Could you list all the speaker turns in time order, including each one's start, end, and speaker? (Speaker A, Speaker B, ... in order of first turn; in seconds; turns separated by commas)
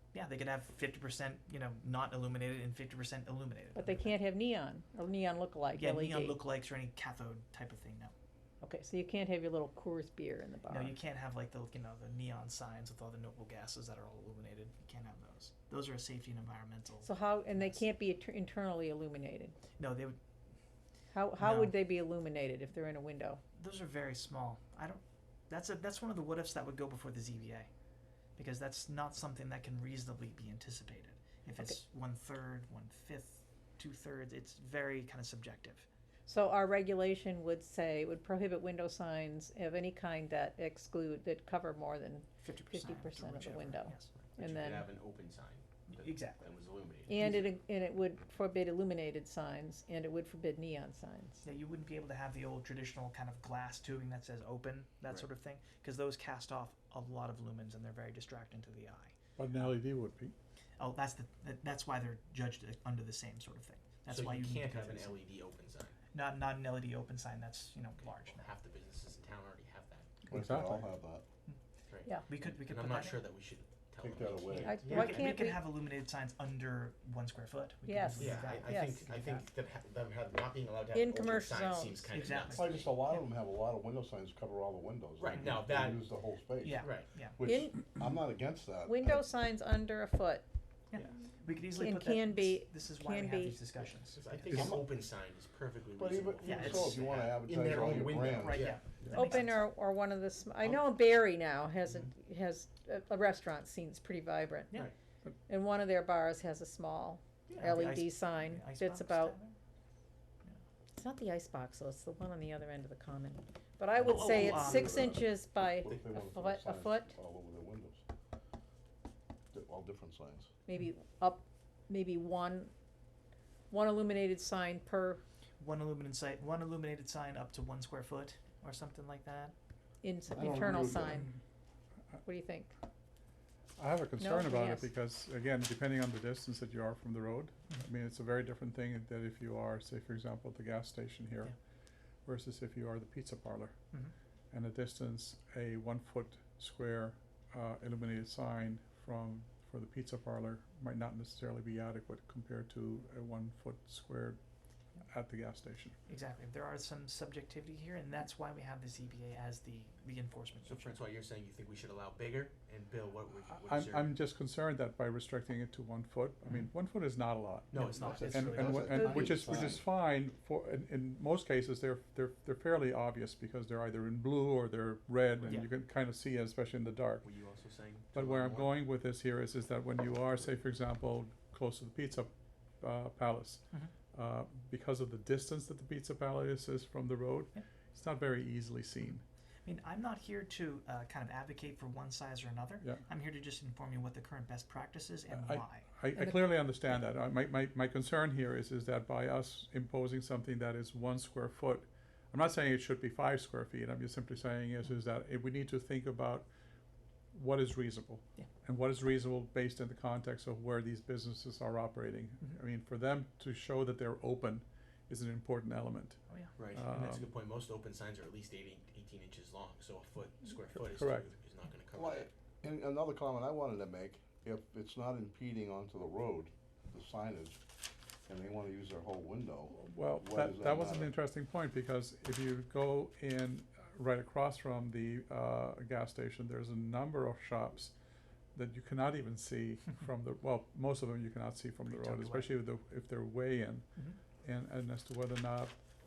Speaker A: 0.1-4.1, Speaker B: 3.8-6.4, Speaker A: 5.8-8.1, Speaker B: 8.6-11.0, Speaker A: 10.7-17.8, Speaker B: 17.0-19.6, Speaker A: 19.8-20.2, Speaker B: 21.1-23.4, Speaker A: 21.4-21.8, Speaker A: 23.6-27.7, Speaker A: 28.4-35.9, Speaker B: 36.3-44.9, Speaker A: 42.4-44.1, Speaker C: 44.3-47.4, Speaker A: 45.9-46.5, Speaker B: 47.1-51.4, Speaker A: 47.2-47.4, Speaker A: 51.4-59.7, Speaker D: 59.4-60.3, Speaker A: 60.8-65.2, Speaker C: 64.1-66.0, Speaker A: 66.1-68.5, Speaker C: 68.1-70.2, Speaker D: 70.3-70.9, Speaker E: 70.3-71.2, Speaker C: 71.9-75.4, Speaker A: 72.3-73.3, Speaker E: 74.0-74.8, Speaker A: 74.5-79.5, Speaker B: 74.7-75.7, Speaker B: 77.8-79.0, Speaker C: 78.2-83.0, Speaker B: 80.9-82.1, Speaker A: 82.1-82.8, Speaker E: 82.5-89.3, Speaker C: 85.2-86.1, Speaker A: 86.6-87.4, Speaker C: 86.8-87.1, Speaker B: 87.4-88.0, Speaker B: 88.9-90.5, Speaker A: 90.9-94.5, Speaker B: 91.8-93.6, Speaker C: 93.8-99.4, Speaker E: 94.5-94.8, Speaker E: 96.0-98.6, Speaker A: 96.4-97.0, Speaker A: 97.7-99.7, Speaker B: 99.1-104.8, Speaker B: 105.5-109.3, Speaker A: 107.5-109.5, Speaker B: 110.9-117.1, Speaker A: 114.0-115.2, Speaker E: 114.0-118.0, Speaker E: 119.5-120.5, Speaker B: 120.7-122.7, Speaker B: 123.7-125.2, Speaker A: 125.6-129.5, Speaker B: 130.0-131.3, Speaker E: 130.4-131.2, Speaker B: 132.2-132.7, Speaker D: 133.8-141.5, Speaker B: 134.2-134.9, Speaker D: 142.2-143.8, Speaker D: 144.5-154.4, Speaker D: 155.0-156.0, Speaker A: 156.1-161.0, Speaker C: 160.7-164.2, Speaker D: 163.5-177.2, Speaker C: 167.7-168.8, Speaker A: 167.8-169.3, Speaker E: 168.1-169.9, Speaker A: 175.4-175.7, Speaker C: 177.2-178.8, Speaker D: 178.1-182.3, Speaker D: 182.8-189.2, Speaker A: 189.7-195.9, Speaker D: 195.3-206.5, Speaker B: 196.2-196.5, Speaker D: 207.3-216.2, Speaker C: 216.6-222.3, Speaker D: 216.7-217.3, Speaker D: 220.8-221.3, Speaker E: 221.9-227.6, Speaker E: 228.3-231.1, Speaker D: 229.7-237.9, Speaker D: 238.5-243.9, Speaker A: 241.9-242.6, Speaker D: 244.4-245.8